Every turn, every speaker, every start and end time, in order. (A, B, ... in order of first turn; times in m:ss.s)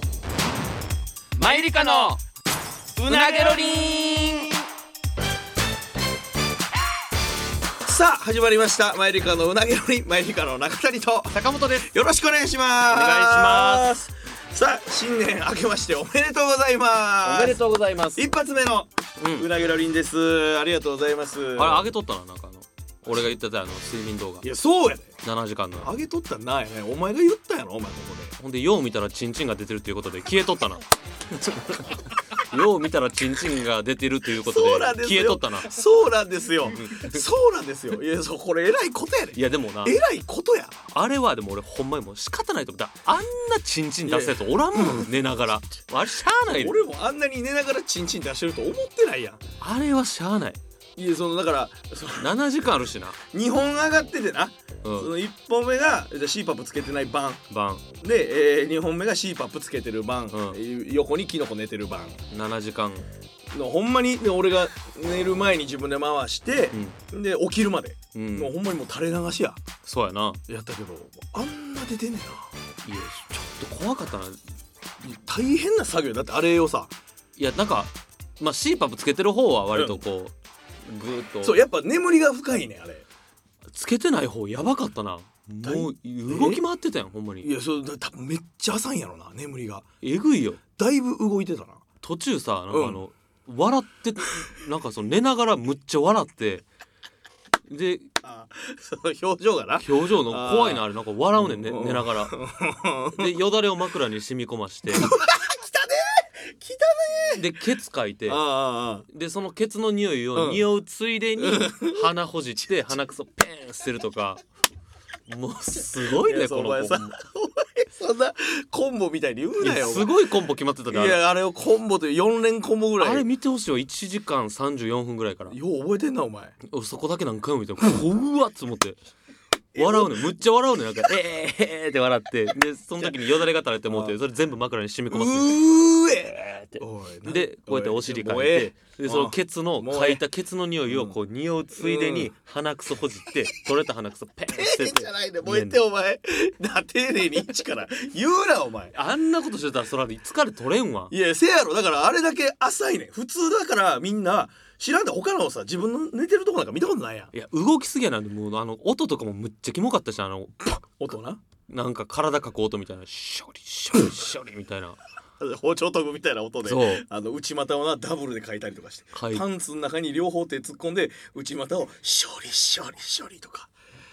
0:01.4-0:02.2 A
0:03.0-0:03.9 B
0:03.0-0:04.5 A
0:07.8-0:17.6 B
0:11.3-0:11.9 A
0:12.9-0:13.9 A
0:17.2-0:18.2 A
0:18.2-0:21.9 B
0:19.2-0:19.5 A
0:21.6-0:24.5 A
0:24.4-0:25.2 B
0:25.2-0:25.9 A
0:25.8-0:28.4 B
0:28.4-0:35.8 A
0:34.4-0:40.8 B
0:36.7-0:37.2 A
0:39.3-0:40.0 A
0:40.9-0:46.8 A
0:44.1-0:45.1 B
0:46.5-0:49.4 B
0:49.6-0:50.6 A
0:51.0-0:52.3 B
0:52.2-0:53.2 A
0:53.3-0:57.4 B
0:54.8-0:55.1 A
0:57.5-0:57.8 A
0:58.0-1:02.2 B
1:00.3-1:00.6 A
1:02.3-1:03.1 A
1:03.5-1:09.6 B
1:06.7-1:07.0 A
1:08.2-1:08.5 A
1:09.8-1:10.4 A
1:10.5-1:12.5 B
1:12.8-1:14.4 A
1:15.0-1:16.9 B
1:17.4-1:20.3 A
1:19.7-1:20.0 B
1:20.8-1:21.6 A
1:21.4-1:23.0 B
1:23.7-1:27.5 A
1:25.6-1:26.6 B
1:27.4-1:29.9 B
1:30.0-1:30.6 A
1:30.8-1:31.8 B
1:32.0-1:36.6 A
1:32.7-1:33.0 B
1:37.7-1:38.1 A
1:38.2-1:43.3 B
1:39.8-1:42.4 A
1:43.1-1:45.2 A
1:44.9-1:47.4 B
1:47.4-1:48.4 A
1:48.3-1:49.1 B
1:49.1-1:54.4 A
1:50.3-1:50.6 B
1:51.4-1:52.1 B
1:55.3-1:57.2 A
1:56.0-2:00.2 B
1:59.6-2:01.2 A
2:00.9-2:03.2 B
2:03.0-2:05.6 A
2:05.5-2:06.6 B
2:06.6-2:09.0 A
2:09.7-2:10.3 B
2:09.8-2:15.6 A
2:13.9-2:14.2 B
2:15.1-2:20.2 B
2:16.6-2:25.8 A
2:20.9-2:21.2 B
2:21.8-2:22.3 B
2:24.5-2:29.0 B
2:28.9-2:31.1 A
2:31.1-2:37.3 B
2:37.3-2:40.8 A
2:41.0-2:41.4 B
2:41.7-2:45.0 A
2:45.4-2:53.7 B
2:46.6-2:47.0 A
2:49.1-2:49.4 A